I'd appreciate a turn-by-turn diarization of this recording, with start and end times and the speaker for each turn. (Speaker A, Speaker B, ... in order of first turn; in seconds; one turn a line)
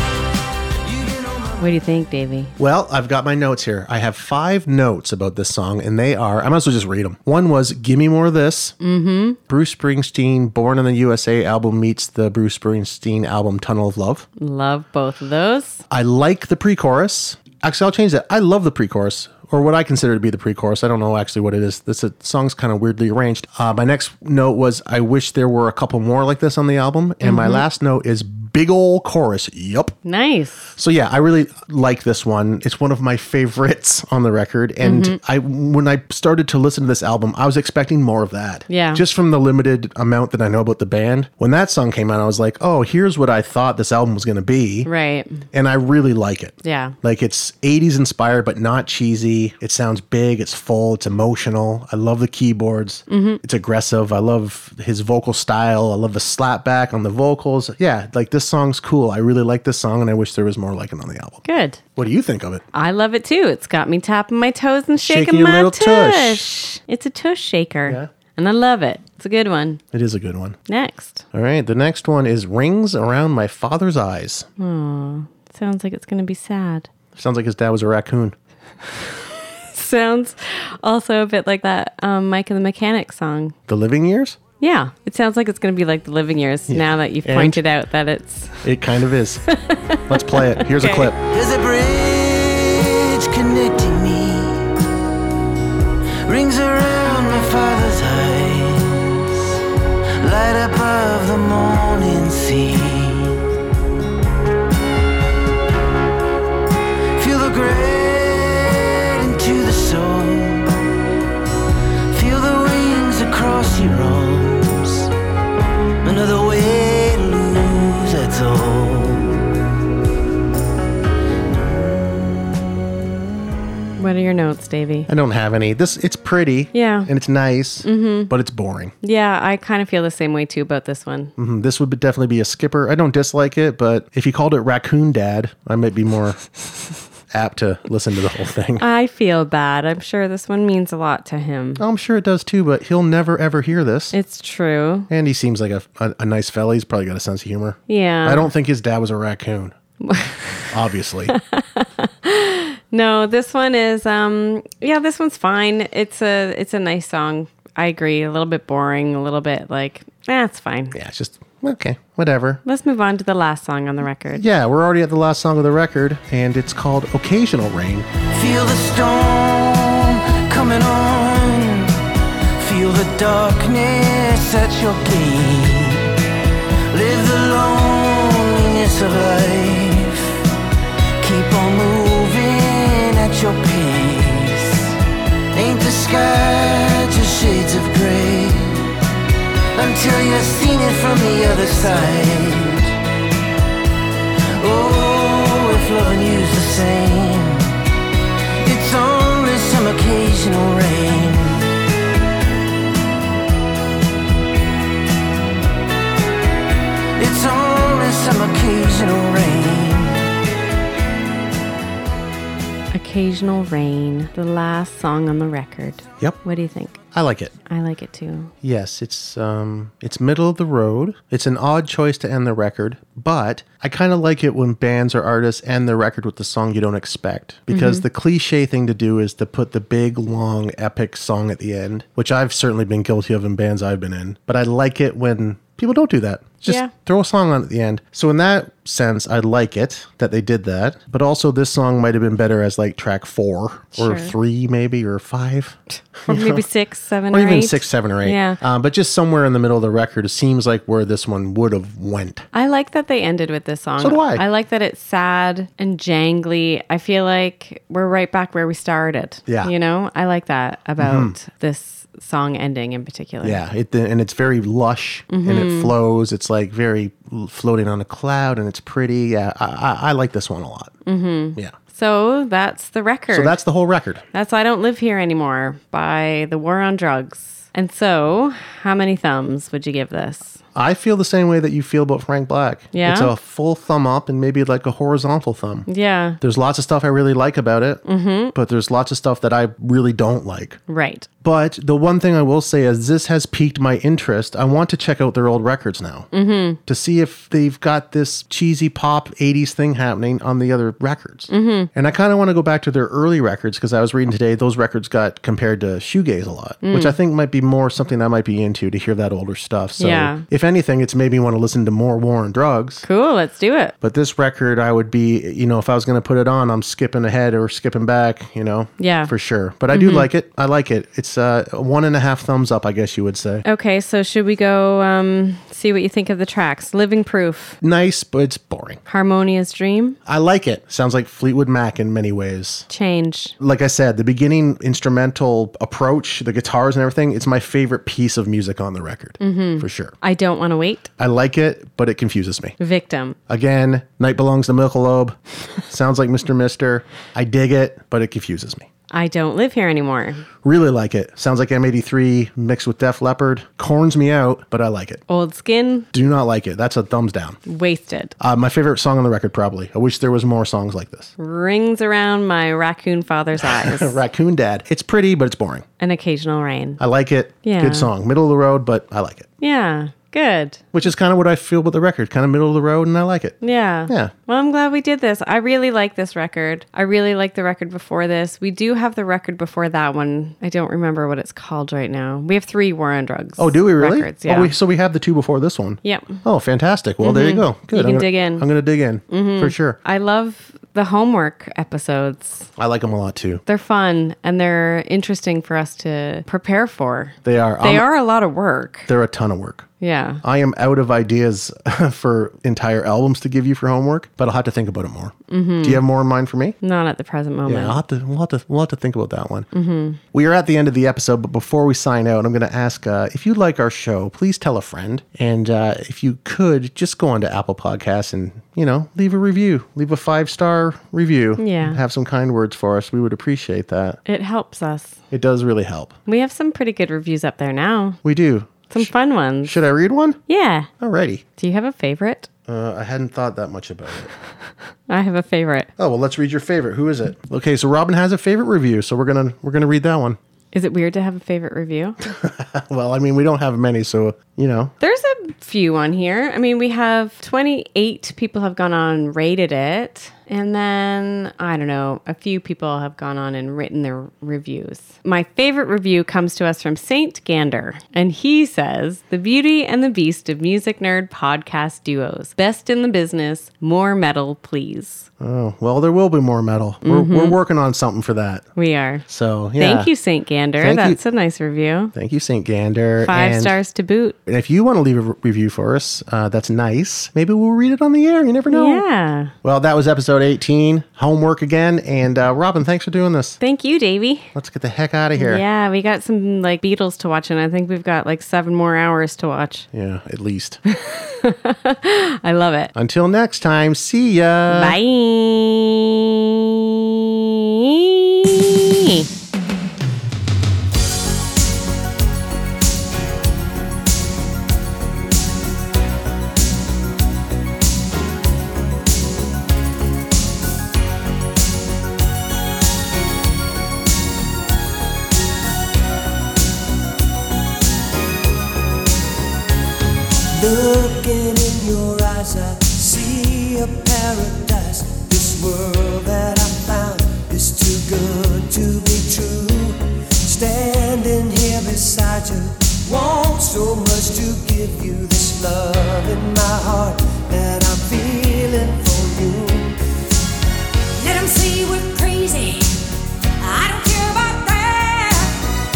Speaker A: 0.8-1.7
Speaker B: 1.6-2.5
Speaker C: 2.6-8.8
Speaker B: 8.8-9.4
Speaker C: 9.5-14.3
Speaker B: 14.4-15.8
Speaker C: 15.9-30.0
Speaker B: 27.2-27.6
Speaker B: 30.1-30.7
Speaker C: 30.8-44.9
Speaker B: 34.8-35.2
Speaker B: 38.7-39.0
Speaker B: 44.9-45.5
Speaker C: 45.5-61.4
Speaker B: 46.6-47.0
Speaker B: 53.1-53.4
Speaker B: 61.5-61.8
Speaker C: 62.0-62.6
Speaker B: 62.7-69.8
Speaker C: 65.0-66.5
Speaker C: 69.9-70.6
Speaker B: 70.7-71.2
Speaker C: 71.3-74.5
Speaker B: 74.6-76.9
Speaker C: 77.2-78.4
Speaker B: 79.7-83.6
Speaker C: 83.7-84.4
Speaker B: 84.6-88.7
Speaker C: 86.7-87.6
Speaker C: 88.6-89.4
Speaker B: 89.5-91.1
Speaker C: 90.1-91.2
Speaker A: 91.3-94.7
Speaker A: 96.3-99.5
Speaker A: 100.2-103.4
Speaker A: 107.1-110.8
Speaker A: 112.1-115.1
Speaker A: 116.0-119.4
Speaker B: 124.0-125.1
Speaker C: 125.1-128.9
Speaker B: 126.7-127.1
Speaker B: 127.8-128.3
Speaker B: 129.0-131.3
Speaker C: 131.4-136.4
Speaker C: 137.3-138.8
Speaker B: 138.8-141.8
Speaker C: 141.8-144.2
Speaker B: 144.1-145.1
Speaker C: 145.1-149.8
Speaker B: 147.9-148.5
Speaker B: 150.0-150.4
Speaker C: 150.7-151.3
Speaker B: 151.3-161.0
Speaker C: 160.9-162.6
Speaker B: 162.7-164.4
Speaker C: 164.4-168.1
Speaker A: 168.3-172.0
Speaker A: 172.6-176.2
Speaker A: 176.9-180.4
Speaker A: 181.2-185.0
Speaker A: 185.5-188.9
Speaker A: 189.7-193.0
Speaker A: 194.6-197.8
Speaker A: 198.6-201.7
Speaker A: 207.2-210.3
Speaker B: 212.9-217.0
Speaker C: 217.1-217.5
Speaker B: 217.7-218.5
Speaker C: 218.6-246.6
Speaker B: 227.7-228.1
Speaker B: 236.7-236.9
Speaker B: 244.0-244.3
Speaker B: 246.3-248.6
Speaker C: 247.3-252.4
Speaker B: 252.5-263.6
Speaker C: 254.0-254.4
Speaker C: 259.5-259.7
Speaker C: 261.0-261.4
Speaker C: 263.4-270.9
Speaker B: 265.3-265.9
Speaker B: 271.1-273.6
Speaker C: 273.3-274.2
Speaker B: 274.3-280.6
Speaker C: 280.8-285.9
Speaker B: 282.9-283.3
Speaker B: 285.9-286.4
Speaker C: 286.4-290.8
Speaker B: 288.1-288.5
Speaker B: 290.9-291.3
Speaker C: 291.4-296.3
Speaker B: 296.3-296.8
Speaker C: 296.9-313.1
Speaker B: 301.5-301.9
Speaker B: 306.8-307.2
Speaker B: 310.0-310.4
Speaker B: 313.1-313.9
Speaker C: 314.0-323.6
Speaker B: 319.0-319.3
Speaker B: 319.9-320.3
Speaker B: 323.7-327.8
Speaker C: 327.8-329.0
Speaker B: 329.1-330.2
Speaker C: 330.3-332.9
Speaker B: 332.9-333.6
Speaker C: 333.6-340.1
Speaker B: 339.4-341.1
Speaker C: 341.2-342.8
Speaker B: 342.8-343.4
Speaker C: 343.5-345.4
Speaker C: 345.9-348.9
Speaker B: 349.1-350.4
Speaker C: 350.6-355.2
Speaker B: 355.3-356.1
Speaker C: 356.1-357.6
Speaker B: 357.7-358.4
Speaker C: 358.4-361.3
Speaker B: 361.4-364.2
Speaker C: 363.6-365.9
Speaker B: 366.0-367.0
Speaker C: 367.0-369.5
Speaker B: 367.6-368.1
Speaker B: 369.6-370.8
Speaker C: 370.9-373.6
Speaker B: 373.6-384.7
Speaker C: 374.1-374.3
Speaker C: 383.6-390.0
Speaker B: 386.0-386.4
Speaker B: 387.2-388.7
Speaker B: 389.3-392.7
Speaker C: 392.8-393.6
Speaker B: 393.7-399.1
Speaker C: 397.4-398.1
Speaker C: 399.1-399.9
Speaker B: 400.0-400.4
Speaker C: 400.4-406.8
Speaker B: 405.5-406.0
Speaker B: 406.8-408.0
Speaker C: 407.6-409.7
Speaker B: 409.7-410.2
Speaker C: 410.3-424.2
Speaker B: 421.6-422.0
Speaker B: 424.3-425.2
Speaker C: 425.3-426.1
Speaker B: 426.3-428.2
Speaker C: 428.2-429.1
Speaker B: 428.9-429.8
Speaker C: 429.6-430.4
Speaker B: 430.5-430.9
Speaker C: 431.0-431.4
Speaker B: 431.6-432.5
Speaker C: 432.7-434.3
Speaker B: 435.1-435.9
Speaker C: 436.0-440.4
Speaker B: 440.7-442.2
Speaker C: 442.2-444.9
Speaker B: 445.0-465.3
Speaker C: 465.4-468.7
Speaker B: 467.0-467.6
Speaker B: 468.8-469.2
Speaker C: 469.3-470.1
Speaker B: 469.8-472.1
Speaker C: 470.8-471.2
Speaker C: 472.1-473.8
Speaker B: 473.2-474.4
Speaker C: 474.5-479.0
Speaker B: 478.7-479.5
Speaker C: 479.6-483.6
Speaker B: 483.6-484.5
Speaker C: 484.6-485.6
Speaker B: 485.4-489.9
Speaker C: 489.9-490.8
Speaker B: 490.9-492.9
Speaker C: 492.9-495.0
Speaker B: 494.7-499.3
Speaker D: 520.5-540.0
Speaker E: 541.2-543.0
Speaker E: 543.6-545.6